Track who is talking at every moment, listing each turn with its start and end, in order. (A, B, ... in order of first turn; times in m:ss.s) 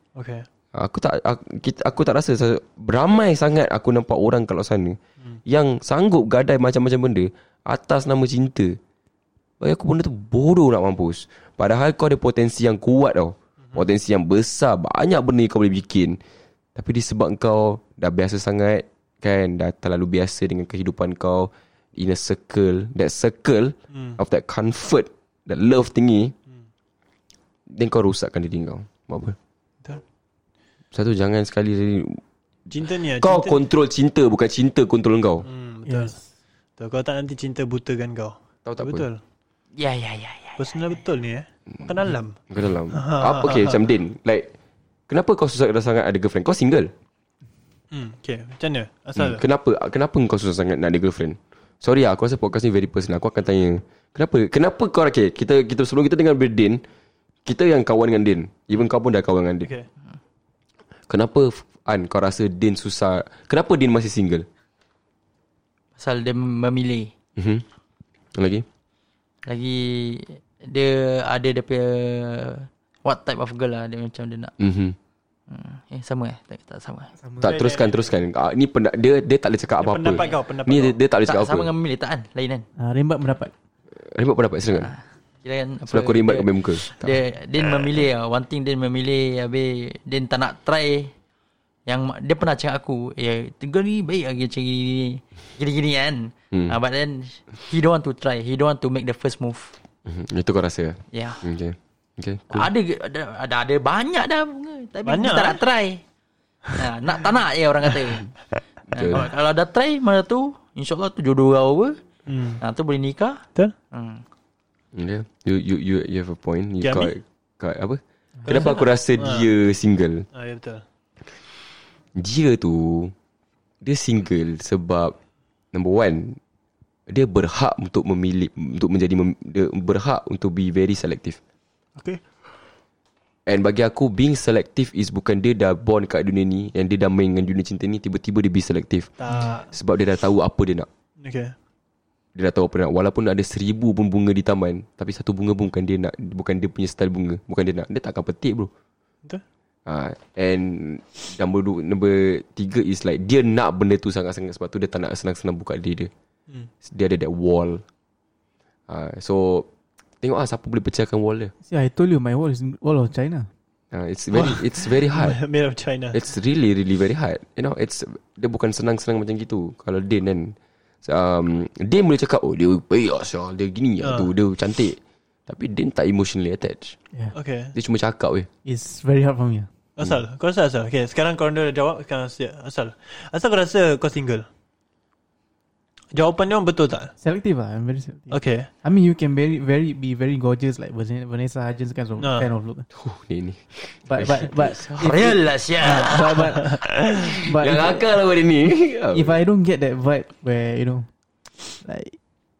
0:00.1-0:00.4 A
0:00.7-0:08.8 B
0:09.6-0:16.2 B
0:16.7-0:26.3 B
0:23.9-0:24.2 A
0:27.7-0:29.4 B
0:30.9-0:32.2 B
0:32.7-0:33.6 A
0:33.0-0:35.4 B
0:35.4-0:36.2 A
0:35.8-0:36.2 C
0:36.8-0:39.2 A
0:38.6-0:39.0 B
0:39.8-0:41.0 D
0:40.6-0:42.4 A
0:42.5-0:44.5 B
0:42.9-0:43.8 A
0:45.1-0:46.9 B
0:47.9-0:49.4 A
0:49.2-0:56.8 B
0:57.4-0:59.7 B
1:01.1-1:04.4 B
1:06.0-1:07.1 D
1:07.4-1:07.6 B
1:08.4-1:08.6 B
1:09.4-1:14.5 D
1:14.6-1:15.0 B
1:15.5-1:17.1 D
1:17.2-1:17.6 C
1:17.4-1:21.7 B
1:17.4-1:18.1 A
1:19.8-1:21.0 A
1:20.1-1:20.4 D
1:21.3-1:22.6 D
1:22.8-1:23.5 C
1:24.0-1:24.9 B
1:24.8-1:31.1 D
1:25.9-1:27.2 B
1:31.8-1:39.7 D
1:40.0-1:42.7 B
1:41.1-1:41.4 D
1:42.5-1:46.0 D
1:45.0-1:45.6 A
1:46.7-1:48.3 D
1:48.9-1:52.0 D
1:48.9-1:49.2 B
1:52.3-1:52.6 A
1:52.6-1:54.2 D
1:54.9-2:00.3 B
1:56.8-1:57.1 A
1:58.4-1:58.7 C
1:58.6-1:59.5 A
2:00.3-2:00.8 A
2:02.2-2:03.1 B
2:03.8-2:05.1 B
2:05.7-2:06.4 B
2:07.1-2:11.4 B
2:13.5-2:19.1 B
2:19.2-2:19.7 A
2:19.7-2:20.9 B
2:21.2-2:21.5 A
2:22.3-2:28.7 B
2:29.8-2:36.1 B
2:36.8-2:37.8 B
2:38.9-2:39.7 B
2:40.2-2:41.5 B
2:41.6-2:43.5 C
2:43.9-2:45.4 B
2:44.3-2:46.2 A
2:46.1-2:57.0 B
2:54.0-2:54.3 A
2:57.3-2:57.7 A
2:57.7-2:58.5 B
2:58.6-2:59.7 C
3:00.0-3:04.4 A
3:06.1-3:07.1 A
3:07.2-3:12.8 C
3:08.3-3:08.7 A
3:12.2-3:12.5 A
3:12.9-3:15.0 B
3:14.1-3:16.8 C
3:14.9-3:16.5 D
3:17.1-3:19.3 B
3:17.4-3:18.0 C
3:19.1-3:21.1 C
3:21.8-3:22.2 C